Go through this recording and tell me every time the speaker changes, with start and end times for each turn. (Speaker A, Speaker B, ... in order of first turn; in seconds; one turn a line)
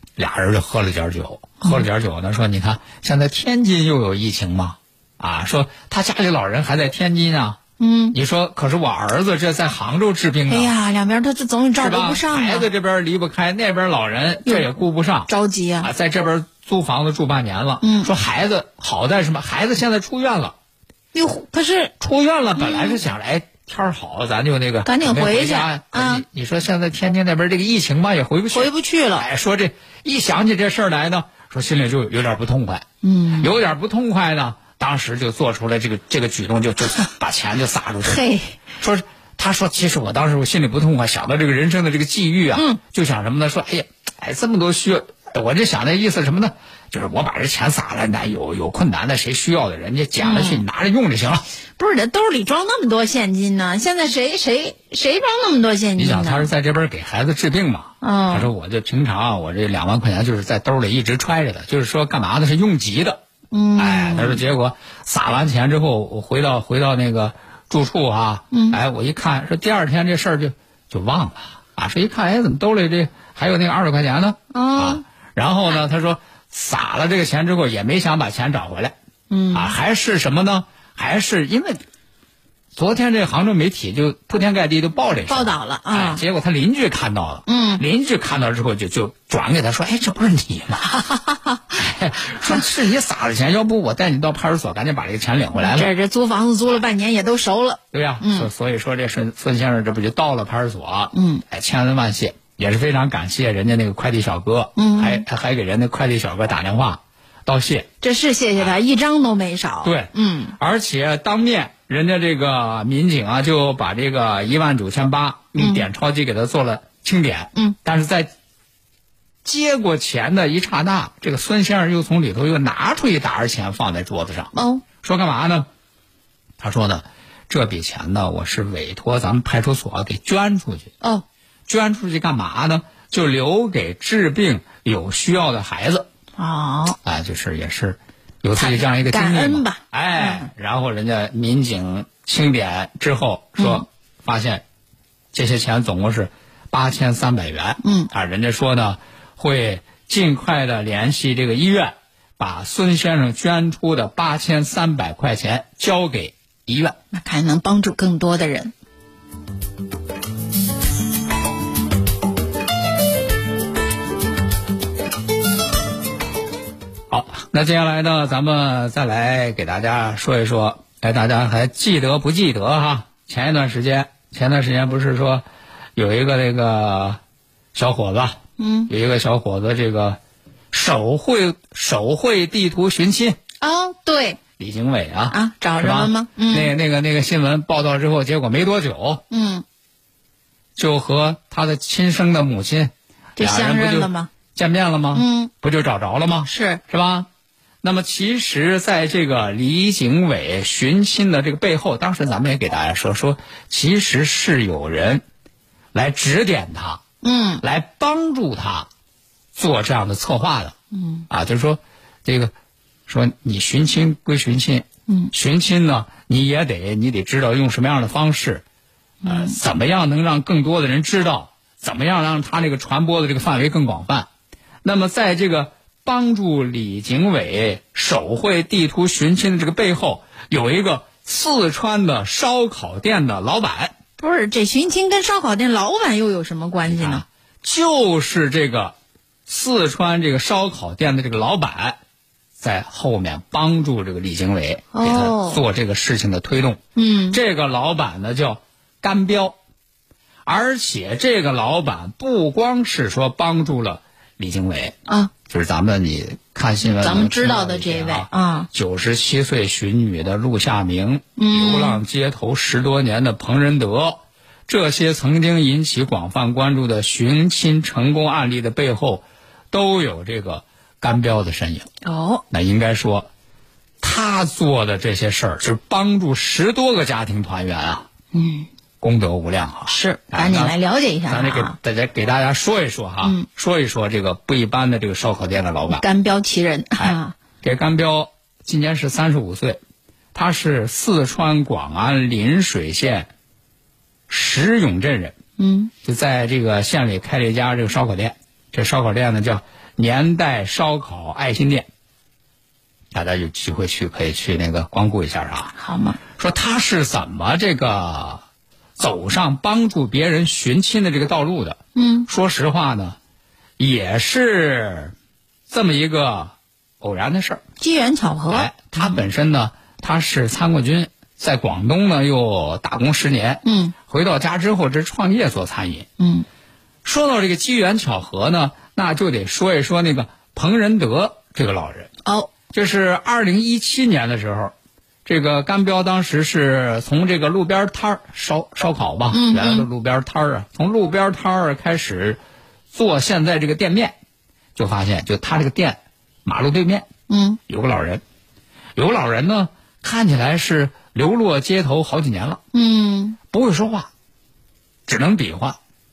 Speaker A: 0.2-7.6
Speaker B: 7.8-8.2
Speaker A: 8.1-10.7
Speaker B: 10.5-12.7
Speaker A: 11.8-15.3
Speaker B: 15.3-15.9
Speaker A: 15.8-20.6
Speaker B: 17.8-18.1
Speaker B: 21.1-21.9
Speaker A: 22.0-32.9
Speaker B: 22.6-23.0
Speaker B: 24.9-26.2
Speaker B: 28.5-29.3
Speaker B: 33.0-33.5
Speaker A: 33.4-38.2
Speaker B: 38.0-38.6
Speaker A: 38.8-51.5
Speaker B: 42.5-42.8
Speaker B: 50.2-50.6
Speaker B: 51.8-56.5
Speaker A: 56.0-63.2
Speaker B: 58.0-58.5
Speaker B: 63.5-64.4
Speaker A: 63.8-79.0
Speaker B: 68.5-68.8
Speaker B: 74.5-75.0
Speaker B: 79.3-79.8
Speaker A: 79.5-81.8
Speaker A: 82.8-90.9
Speaker B: 85.3-86.2
Speaker B: 87.5-87.8
Speaker B: 90.8-91.7
Speaker A: 91.8-95.9
Speaker B: 95.6-98.5
Speaker A: 97.9-107.9
Speaker B: 101.1-101.4
Speaker B: 104.8-105.2
Speaker B: 108.0-110.6
Speaker A: 109.8-118.3
Speaker B: 115.6-115.9
Speaker A: 119.4-125.7
Speaker B: 124.5-124.8
Speaker A: 126.6-130.9
Speaker A: 131.7-136.1
Speaker B: 136.4-137.0
Speaker A: 137.0-144.6
Speaker B: 138.6-140.5
Speaker B: 143.6-143.8
Speaker A: 145.3-157.0
Speaker B: 147.8-148.1
Speaker B: 157.1-158.7
Speaker A: 167.1-175.4
Speaker A: 176.0-177.2
Speaker A: 177.7-180.2
Speaker B: 178.6-178.9
Speaker A: 180.7-183.4
Speaker B: 183.6-184.4
Speaker A: 184.6-189.2
Speaker B: 185.3-186.7
Speaker B: 189.3-189.7
Speaker A: 190.8-197.3
Speaker B: 193.4-194.3
Speaker B: 195.1-195.5
Speaker B: 196.5-196.8
Speaker A: 197.8-205.2
Speaker A: 205.9-207.0
Speaker B: 207.2-207.6
Speaker A: 207.6-208.9
Speaker A: 209.6-210.8
Speaker B: 210.9-211.3
Speaker A: 211.3-212.5
Speaker A: 213.1-218.6
Speaker B: 215.1-215.3
Speaker B: 219.2-219.6
Speaker A: 219.3-224.3
Speaker A: 224.8-234.0
Speaker B: 234.2-237.2
Speaker A: 236.9-238.9
Speaker A: 239.5-242.0
Speaker A: 242.6-249.6
Speaker B: 244.9-245.6
Speaker B: 247.0-247.4
Speaker A: 250.5-271.9
Speaker B: 255.1-255.3
Speaker B: 257.0-258.7
Speaker B: 261.4-262.0
Speaker B: 272.0-272.4
Speaker A: 272.5-273.3
Speaker A: 274.0-278.1
Speaker B: 278.3-278.7
Speaker A: 279.0-280.8
Speaker B: 279.9-281.8
Speaker A: 281.3-286.1
Speaker B: 283.2-283.5
Speaker B: 285.9-287.4
Speaker A: 287.0-289.8
Speaker A: 290.3-293.3
Speaker A: 294.3-295.4
Speaker B: 295.6-295.9
Speaker A: 296.0-301.9
Speaker A: 303.1-305.7
Speaker B: 305.8-306.2
Speaker A: 306.4-308.4
Speaker A: 309.0-313.2
Speaker B: 311.9-312.3
Speaker A: 313.8-315.1
Speaker A: 315.7-317.6
Speaker B: 317.8-319.2
Speaker A: 318.5-326.1
Speaker B: 323.6-323.9
Speaker B: 326.2-326.5
Speaker A: 327.1-332.1
Speaker B: 332.2-332.5
Speaker A: 332.7-334.7
Speaker A: 335.3-342.4
Speaker B: 339.3-339.9
Speaker A: 342.9-344.2
Speaker A: 344.8-347.1
Speaker B: 347.3-347.6
Speaker A: 347.7-348.2
Speaker A: 349.0-352.6
Speaker B: 352.7-353.4
Speaker A: 353.5-354.1
Speaker A: 355.1-355.8